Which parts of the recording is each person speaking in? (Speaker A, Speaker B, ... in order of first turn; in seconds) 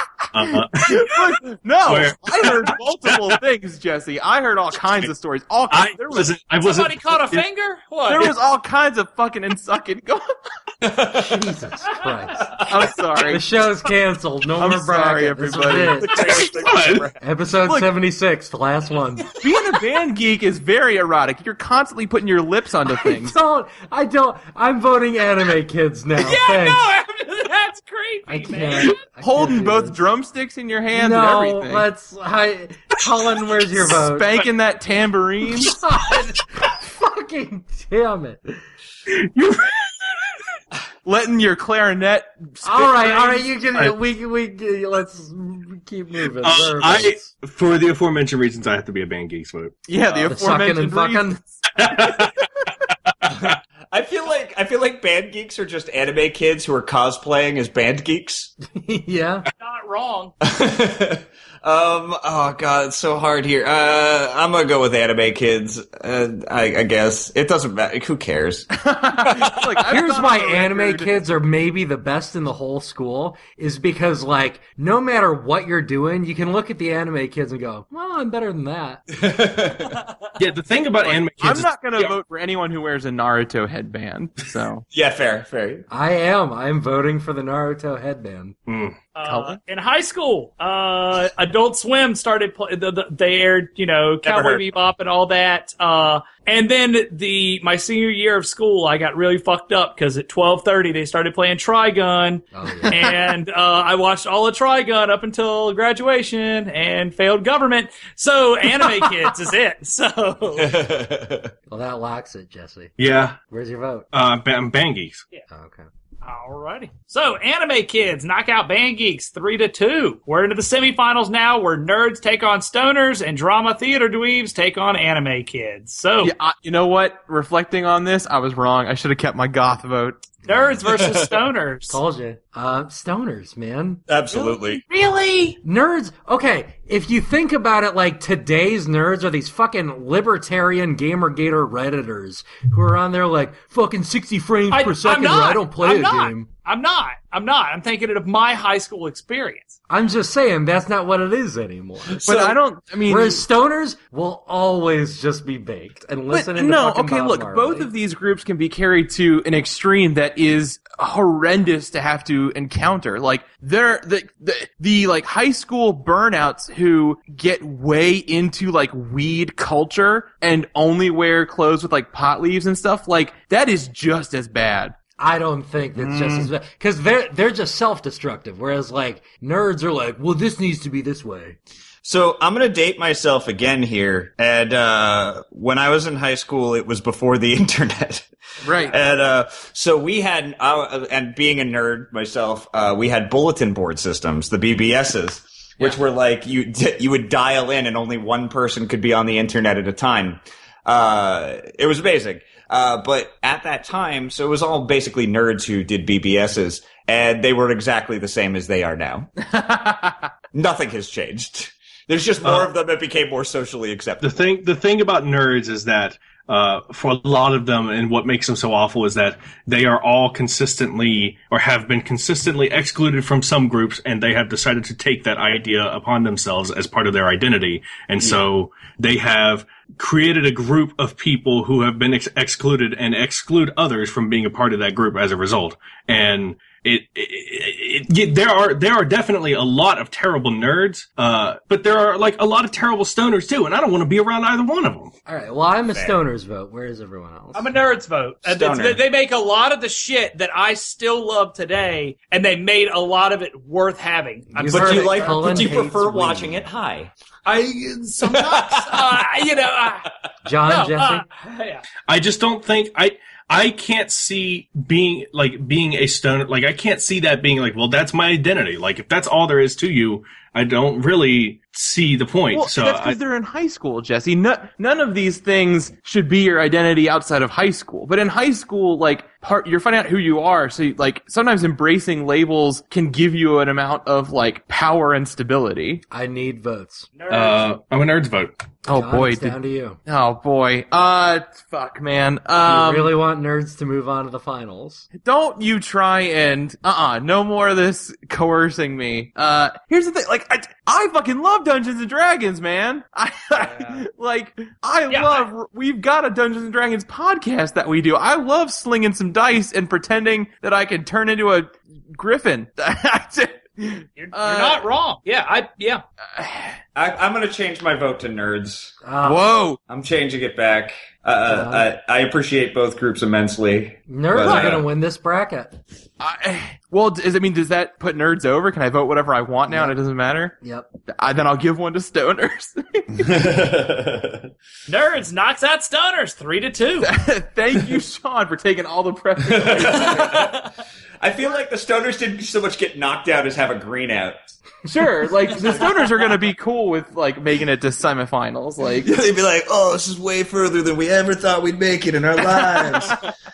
Speaker A: 0.3-3.4, 5.7-7.5, 16.6-17.1, 46.4-50.4, 51.8-52.4, 53.1-53.6, 80.4-82.2, 88.7-89.0, 113.0-113.4, 114.1-115.2, 214.2-245.1, 262.1-273.2, 287.3-288.5
Speaker B: 0.5-6.3, 8.1-10.3, 12.7-13.4, 14.6-17.1, 17.6-17.9, 19.3-23.4, 29.2-31.9, 33.8-35.8, 39.4-39.9, 41.1-43.5, 49.9-51.4, 68.8-71.2, 81.4-84.8, 89.2-89.6, 126.2-130.3, 152.2-153.4, 156.3-174.9, 188.6-189.0, 209.5-210.3, 272.5-286.0, 288.9-293.1, 295.1-314.9, 316.3-316.8, 319.2-319.8, 326.2-330.6, 331.1-333.3, 337.0-340.5, 344.9-349.1, 352.6-352.9
Speaker C: 6.6-8.3, 26.2-29.0, 59.6-60.3, 89.2-110.8, 116.2-126.3, 130.5-132.0, 134.4-135.6, 144.7-149.8, 247.5-255.7, 257.5-260.1, 260.7-261.8, 287.2-287.7, 305.1-305.5, 314.2-316.0, 324.4-324.7, 334.9-337.1
Speaker D: 10.8-11.5, 16.0-17.1, 53.3-58.5, 60.4-69.5, 79.1-80.0, 84.9-85.9, 94.2-94.6, 110.6-111.5, 130.9-131.3, 134.1-134.8, 152.1-152.5, 176.0-176.5, 182.0-209.3, 210.5-214.4, 245.9-246.2, 248.4-249.0, 254.7-257.1, 258.2-259.1, 316.9-318.9, 319.9-324.9, 333.2-334.5, 339.5-340.7, 341.2-344.4, 349.0-353.3
Speaker E: 11.2-12.5, 13.3-16.3, 17.2-19.3, 22.9-26.9, 28.3-30.0, 30.9-34.5, 35.6-38.6, 42.6-47.3, 50.3-51.4, 58.7-59.5, 69.9-79.0, 85.9-88.6, 102.5-103.1, 111.7-112.9, 113.5-114.1, 115.5-115.9, 130.5-130.8, 131.9-134.0, 135.6-146.5, 149.9-152.4, 153.1-157.9, 175.2-181.6, 245.3-247.7, 254.5-256.7, 260.4-261.2, 286.1-287.1, 288.9-290.0, 292.6-295.1, 319.0-319.5, 321.5-321.9, 324.1-325.8, 329.7-330.0, 330.6-330.9